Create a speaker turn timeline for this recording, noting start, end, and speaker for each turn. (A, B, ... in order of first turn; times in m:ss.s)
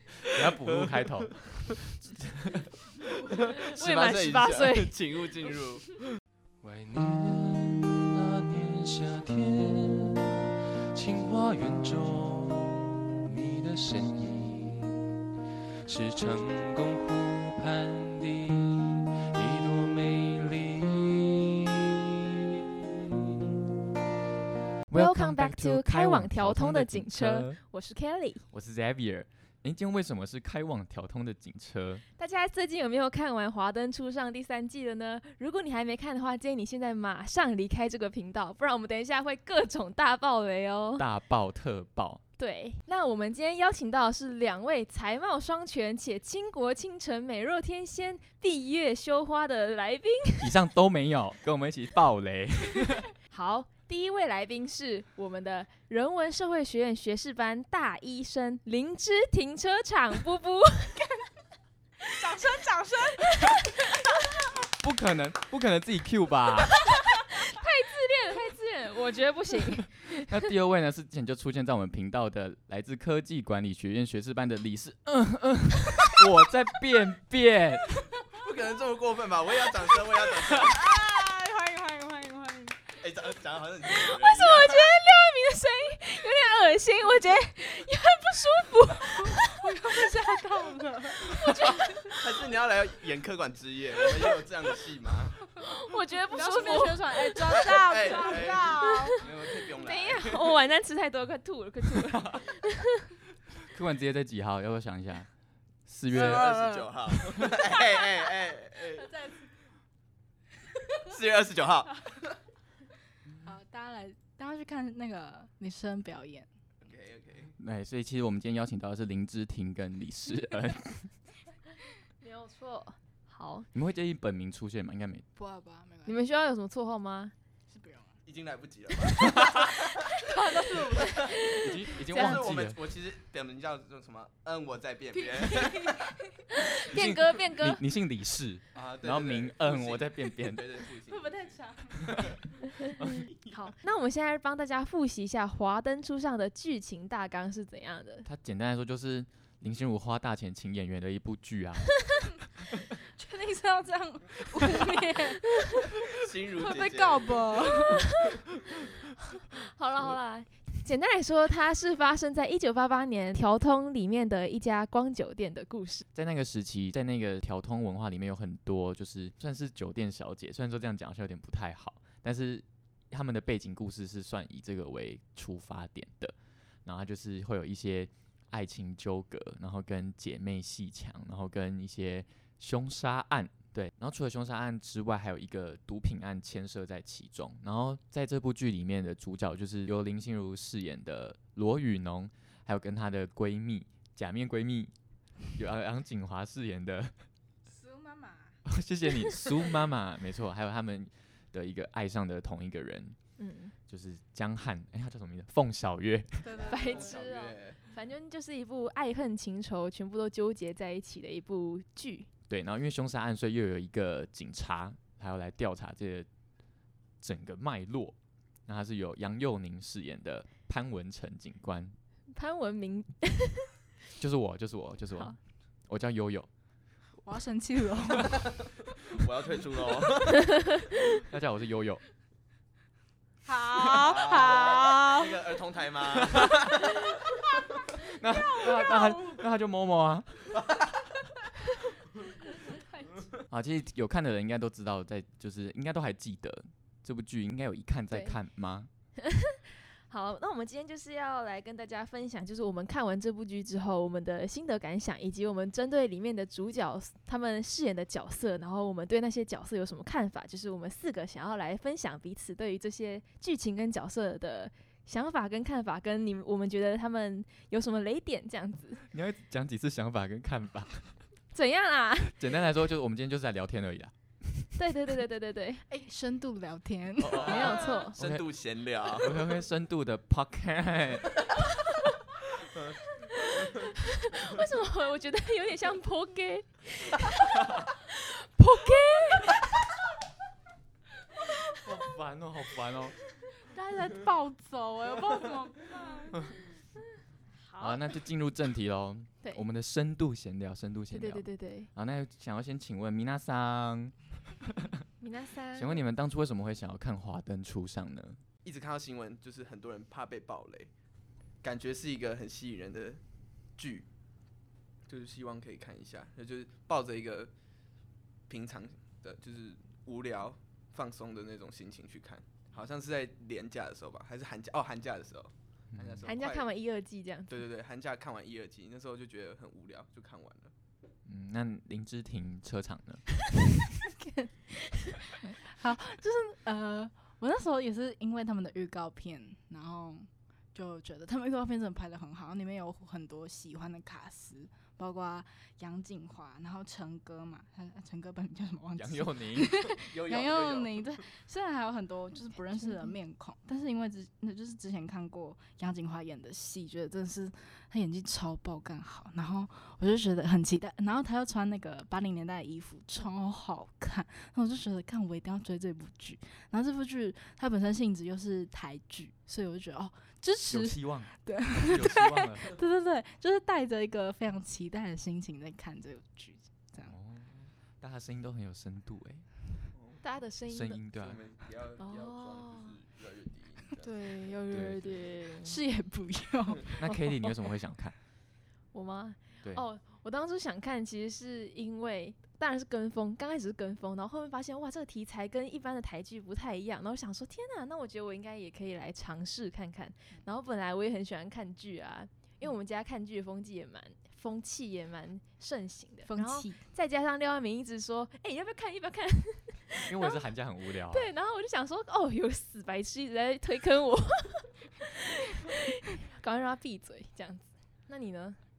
0:00.3-0:02.7 A
0:00.7-0:01.0 B
0:03.3-0:06.0 B
0:03.5-0:04.9 C
0:06.6-0:10.4 D
0:10.9-0:15.1 D
0:15.8-0:22.6 D
0:24.9-0:27.6 A
0:24.9-0:28.4 C
0:28.5-0:32.0 A
0:32.2-0:41.0 C
0:41.0-0:42.2 A
0:42.4-0:50.6 C
0:50.4-0:53.1 A
0:53.3-1:01.1 C
1:02.2-1:03.7 E
1:02.2-1:02.6 C
1:03.2-1:03.8 C
1:04.8-1:06.8 A
1:06.8-1:10.3 C
1:10.2-1:18.1 A
1:18.3-1:20.9 B
1:20.5-1:22.9 E
1:23.0-1:24.9 B
1:23.8-1:29.9 C
1:29.2-1:32.1 E
1:31.3-1:32.2 C
1:32.1-1:35.4 B
1:35.6-1:39.2 C
1:36.3-1:39.2 E
1:37.5-1:40.5 B
1:39.8-1:43.0 C
1:43.7-1:45.3 A
1:45.8-1:46.5 A
1:46.1-1:49.1 B
1:46.1-1:47.8 E
1:48.9-1:49.4 E
1:51.0-1:52.3 B
1:53.4-1:56.5 E
1:56.8-1:57.5 B
1:57.6-2:01.1 A
2:02.2-2:03.7 C
2:03.7-2:05.2 A
2:05.4-2:06.1 E
2:06.0-2:07.3 C
2:07.7-2:08.1 E
2:08.2-2:09.8 B
2:10.1-2:11.4 E
2:11.2-2:12.4 C
2:11.6-2:12.8 A
2:12.1-2:16.0 B
2:15.1-2:16.4 E
2:16.5-2:17.8 C
2:16.9-2:20.7 A
2:18.7-2:22.3 B
2:21.1-2:22.2 E
2:22.8-2:28.3 C
2:23.0-2:23.3 A
2:28.2-2:32.0 A
2:33.2-2:35.6 E
2:36.1-2:38.2 B
2:36.6-2:38.2 E
2:39.5-2:46.0 C
2:46.1-2:56.3 A
2:56.8-3:14.9 A
3:15.5-3:17.1 A
3:17.7-3:18.6 E
3:18.6-3:23.2 A
3:23.4-3:23.7 C
3:23.9-3:26.6 A
3:26.4-3:27.1 E
3:26.6-3:27.8 B
3:26.7-3:32.3 C
3:32.5-3:36.3 A
3:37.2-3:41.9 A
3:42.3-3:43.7 C
3:44.2-3:45.4 A
3:45.9-3:46.5 A
3:47.2-3:48.6 E
3:49.0-3:50.5 B
3:51.2-3:52.0 A
3:53.4-3:55.3 E
3:53.8-3:57.0 B
3:56.1-3:56.8 A
3:58.1-4:00.6 A
3:58.6-3:59.4 E
4:03.5-4:08.9 A
4:08.1-4:08.4 C
4:09.2-4:29.0 C
4:29.1-4:31.1 A
4:31.5-4:32.4 C
4:32.3-4:34.8 A
4:34.8-4:35.8 C
4:35.9-4:38.0 E
4:37.2-4:38.4 A
4:37.3-4:38.2 C
4:38.1-4:39.4 B
4:39.1-4:41.3 A
4:43.2-4:49.9 C
4:51.8-4:53.1 A
4:53.6-4:56.5 E
4:57.6-4:58.0 C
4:57.8-5:05.0 A
5:01.1-5:01.9 C
5:05.2-5:06.0 C
5:05.8-5:08.4 A
5:08.6-5:10.9 B
5:11.6-5:13.2 B
5:13.8-5:14.0 B
5:15.1-5:17.5 B
5:18.5-5:26.6 B
5:25.9-5:26.2 A
5:26.2-5:27.6 C
5:27.5-5:30.7 B
5:31.2-5:33.2 A
5:34.0-5:34.6 E
5:35.2-6:17.1 E
5:48.9-5:49.9 A
5:49.9-5:51.0 B
6:10.7-6:12.8 A
6:17.0-6:19.5 A
6:19.9-6:20.2 B
6:20.2-6:21.0 C
6:20.7-6:21.4 A
6:21.1-6:24.1 B
6:22.0-6:23.0 C
6:24.0-6:25.8 C
6:24.7-6:25.2 A
6:25.6-6:27.1 E
6:27.0-6:28.1 A
6:28.9-6:50.4 C
6:46.3-6:46.8 E
6:50.1-6:51.3 A
6:51.1-6:58.6 C